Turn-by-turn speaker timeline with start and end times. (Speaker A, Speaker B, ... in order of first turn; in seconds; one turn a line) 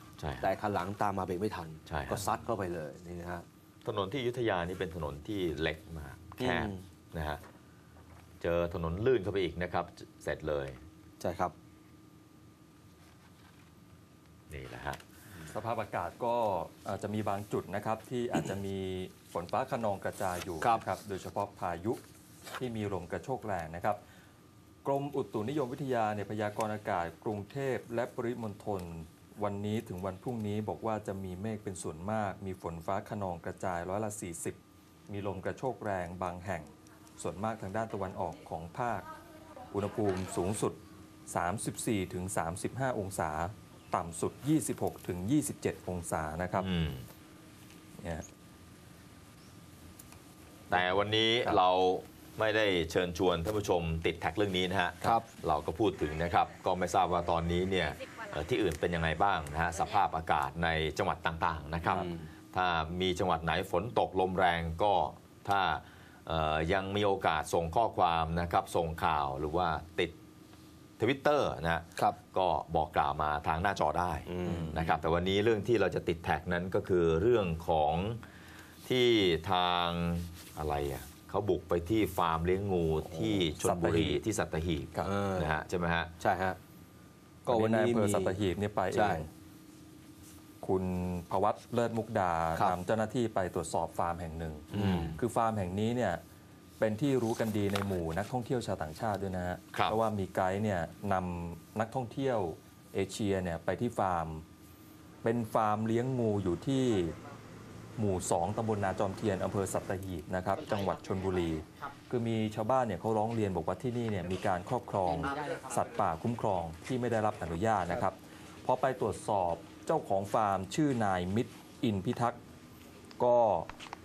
Speaker A: 0.2-0.5
Speaker B: 0.4-3.4
Speaker A: 1.9-2.3
Speaker A: 3.9-7.4
Speaker B: 6.4-6.8
Speaker A: 8.4-10.8
Speaker B: 11.2-11.5
Speaker A: 14.5-15.0
Speaker C: 15.5-22.0
Speaker C: 22.6-24.0
Speaker C: 24.8-39.1
Speaker C: 39.7-46.7
Speaker A: 46.6-47.1
Speaker C: 48.0-48.2
Speaker A: 50.7-70.1
Speaker B: 61.9-62.3
Speaker A: 71.0-78.2
Speaker B: 74.3-74.8
Speaker C: 74.4-74.9
Speaker A: 78.8-86.1
Speaker C: 83.5-84.2
Speaker B: 85.0-85.5
Speaker B: 86.2-86.6
Speaker B: 87.5-88.4
Speaker C: 87.5-89.3
Speaker B: 88.9-89.2
Speaker C: 90.6-96.2
Speaker B: 94.7-95.2
Speaker A: 94.8-95.1
Speaker C: 96.8-104.4
Speaker A: 99.7-100.0
Speaker C: 105.2-107.1
Speaker C: 108.0-122.4
Speaker C: 123.2-123.7